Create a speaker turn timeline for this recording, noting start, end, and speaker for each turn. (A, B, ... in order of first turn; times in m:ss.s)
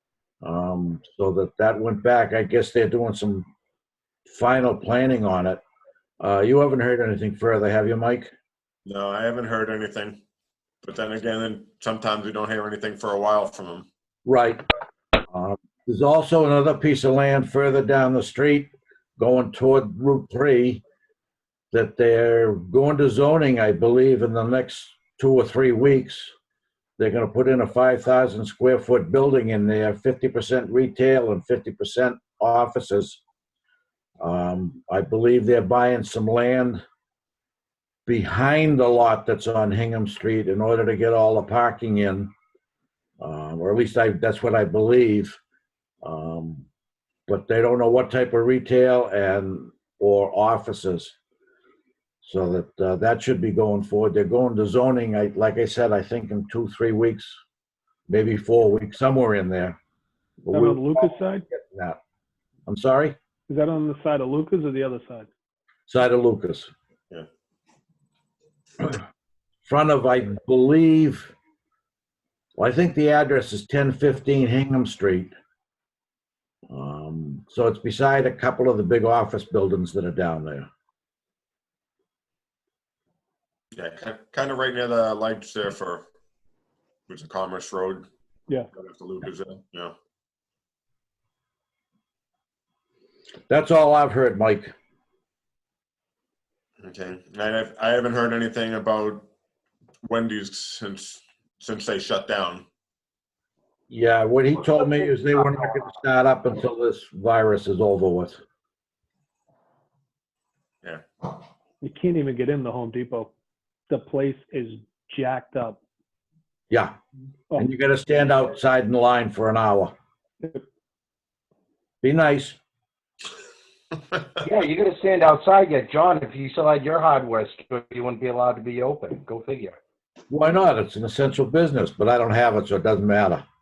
0:00.4-0:03.5 A
0:04.3-0:05.6 A
0:06.2-0:08.3 A
0:08.8-0:10.2 B
0:10.8-0:13.9 B
0:14.2-0:14.6 A
0:15.3-0:20.8 A
0:21.7-0:26.3 A
0:27.0-0:33.2 A
0:34.2-0:36.8 A
0:38.0-0:42.3 A
0:43.2-0:45.4 A
0:46.0-0:46.7 A
0:47.3-0:51.1 A
0:52.2-0:57.4 A
0:58.1-0:59.8 A
1:00.4-1:02.0 A
1:00.5-1:01.4 C
1:02.7-1:03.2 A
1:03.5-1:05.3 C
1:05.9-1:06.7 A
1:09.6-1:11.3 A
1:12.6-1:15.3 A
1:16.7-1:20.7 A
1:23.7-1:26.1 B
1:27.1-1:28.1 B
1:28.7-1:29.9 B
1:33.5-1:34.7 A
1:36.8-1:39.3 B
1:40.0-1:42.6 B
1:43.9-1:48.4 A
1:44.7-1:45.8 D
1:51.8-1:53.3 C
1:53.9-1:55.8 C
1:56.7-1:56.9 A
1:57.6-1:59.9 A
2:02.0-2:02.6 A
2:04.4-2:09.8 D
2:10.3-2:13.4 A